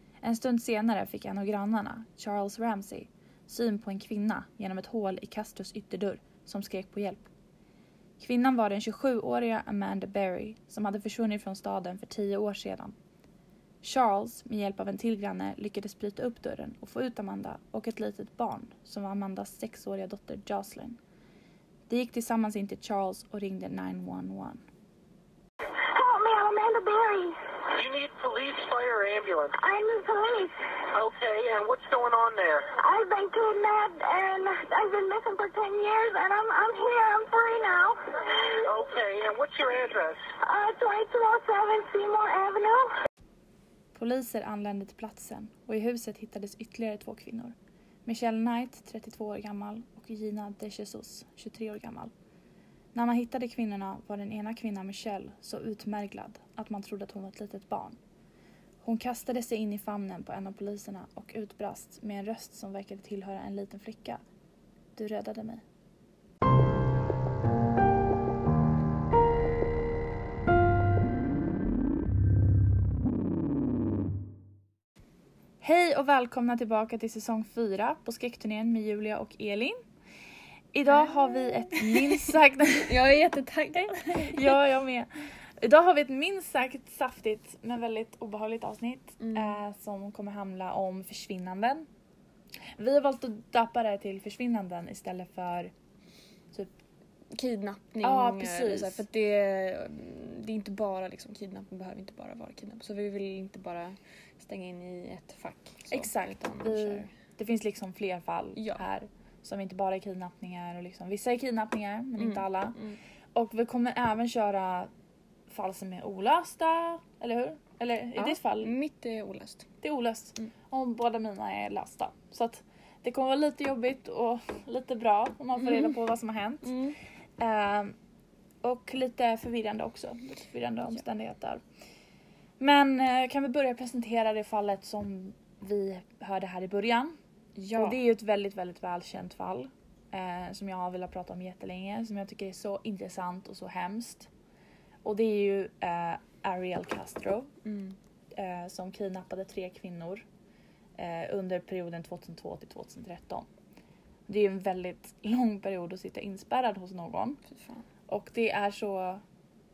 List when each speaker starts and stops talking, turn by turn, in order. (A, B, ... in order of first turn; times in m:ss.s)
0:00.2-0:07.3 A
0:08.2-0:13.0 A
0:13.8-0:21.0 A
0:21.9-0:24.6 A
0:25.7-0:27.4 B
0:27.7-0:29.6 C
0:29.6-0:30.7 B
0:30.9-0:32.7 C
0:32.7-0:38.5 B
0:38.6-0:40.2 C
0:40.4-0:42.9 B
0:44.0-0:47.6 A
0:48.1-0:52.1 A
0:52.9-0:58.0 A
0:58.8-1:04.2 A
1:05.0-1:05.6 A
1:15.6-1:19.8 A
1:20.7-1:23.0 A
1:21.8-1:22.2 D
1:22.9-1:24.6 D
1:24.0-1:31.9 A
1:29.2-1:29.6 D
1:32.8-1:35.7 A
1:37.3-1:47.1 D
1:38.0-1:39.0 A
1:45.9-1:52.8 A
1:48.6-1:48.8 D
1:52.2-1:53.0 D
1:53.3-1:54.9 A
1:55.5-1:58.7 A
1:58.2-1:59.7 D
1:59.8-2:08.0 A
2:05.6-2:05.9 D
2:06.6-2:07.0 D
2:08.6-2:11.6 A
2:12.6-2:17.2 A
2:17.6-2:18.0 D
2:17.8-2:24.3 A
2:25.0-2:27.5 A
2:27.6-2:28.0 D
2:28.3-2:30.2 A
2:31.0-2:33.5 A
2:34.3-2:37.4 A
2:37.5-2:37.8 D
2:38.1-2:39.2 A